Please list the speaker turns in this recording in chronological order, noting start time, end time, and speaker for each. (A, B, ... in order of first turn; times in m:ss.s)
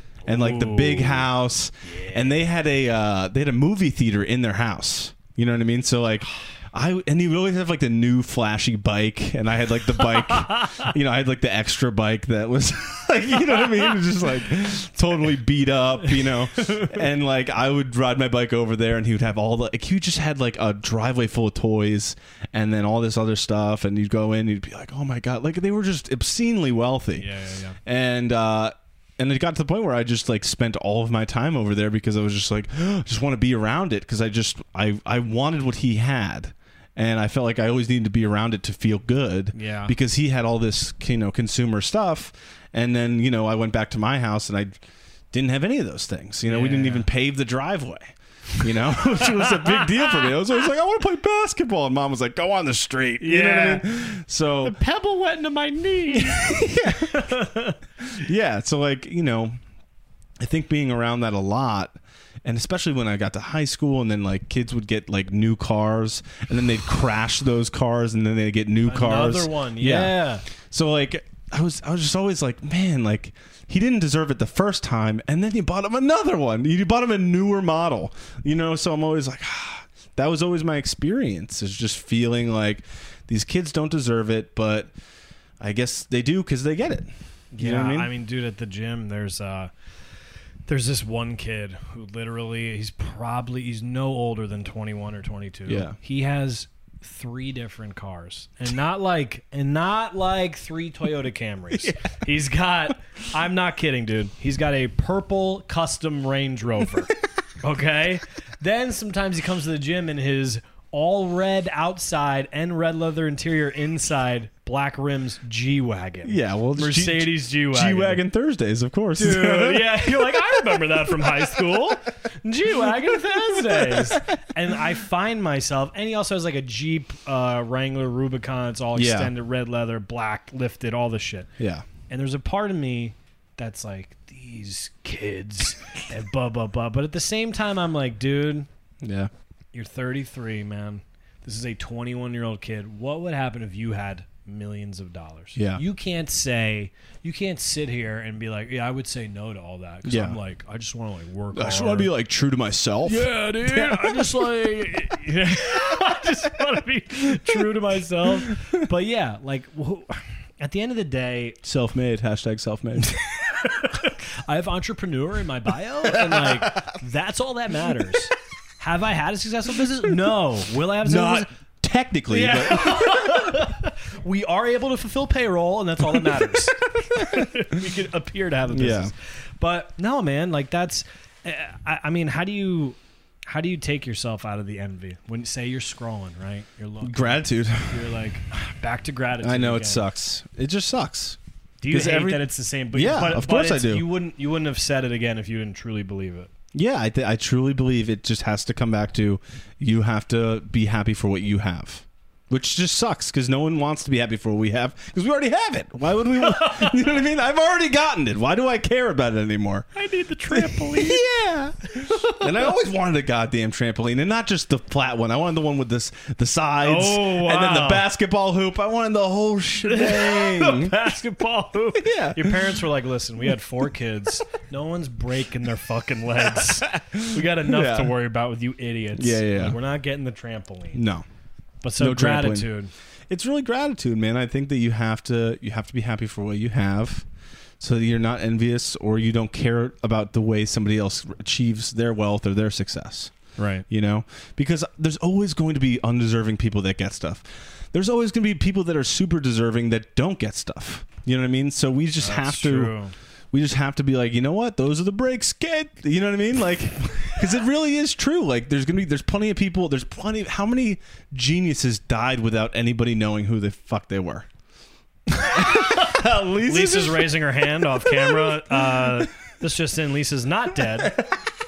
0:00.3-0:01.3 A
0:00.3-0:27.3 B
0:01.9-0:02.4 A
0:10.1-0:10.9 A
0:16.2-0:17.0 A
0:27.2-0:27.8 A
0:27.8-0:44.7 B
0:39.6-0:40.0 A
0:45.3-0:54.8 B
0:46.5-0:47.1 A
0:49.0-0:50.4 A
0:53.2-0:53.9 A
0:54.6-0:57.8 A
0:56.1-0:57.3 B
0:58.0-0:59.6 B
1:00.4-1:24.9 B
1:08.9-1:10.4 A
1:25.6-1:28.1 B
1:27.5-1:29.7 A
1:30.7-1:58.2 A
1:35.7-1:36.0 B
1:56.2-2:01.8 B
1:59.2-2:11.5 A
2:02.9-2:04.4 B
2:09.0-2:09.3 B
2:11.6-2:11.8 B
2:12.1-2:18.7 A
2:19.0-2:19.3 B
2:19.7-2:32.1 A
2:25.6-2:25.8 B
2:30.0-2:30.4 B
2:31.5-2:34.4 B
2:33.0-2:41.6 A
2:38.5-2:38.8 B
2:41.6-2:43.2 B
2:43.5-2:51.5 A
2:46.1-2:47.0 B
2:51.0-2:53.4 B
2:52.3-3:10.0 A
2:57.1-2:57.5 B
2:58.7-2:59.1 B
3:07.0-3:08.1 B
3:09.4-3:11.4 B
3:11.8-3:16.5 A
3:11.9-3:14.1 B
3:16.7-3:29.9 B
3:26.4-3:27.0 A
3:30.0-3:31.2 A
3:30.5-3:41.0 B
3:32.0-3:32.7 A
3:36.8-3:38.1 A
3:39.8-3:51.0 A
3:42.0-3:42.8 B
3:46.9-3:48.1 B
3:49.2-3:49.8 B
3:50.9-3:51.3 B
3:51.8-3:52.9 A
3:52.0-3:52.7 B
3:53.3-3:57.3 B
3:57.8-4:03.3 B
4:03.6-4:03.8 A
4:03.9-4:13.0 B
4:12.2-4:13.1 A
4:13.5-4:24.5 B
4:25.4-4:31.2 A
4:25.4-4:27.3 B
4:28.0-4:29.2 B
4:31.0-4:31.3 B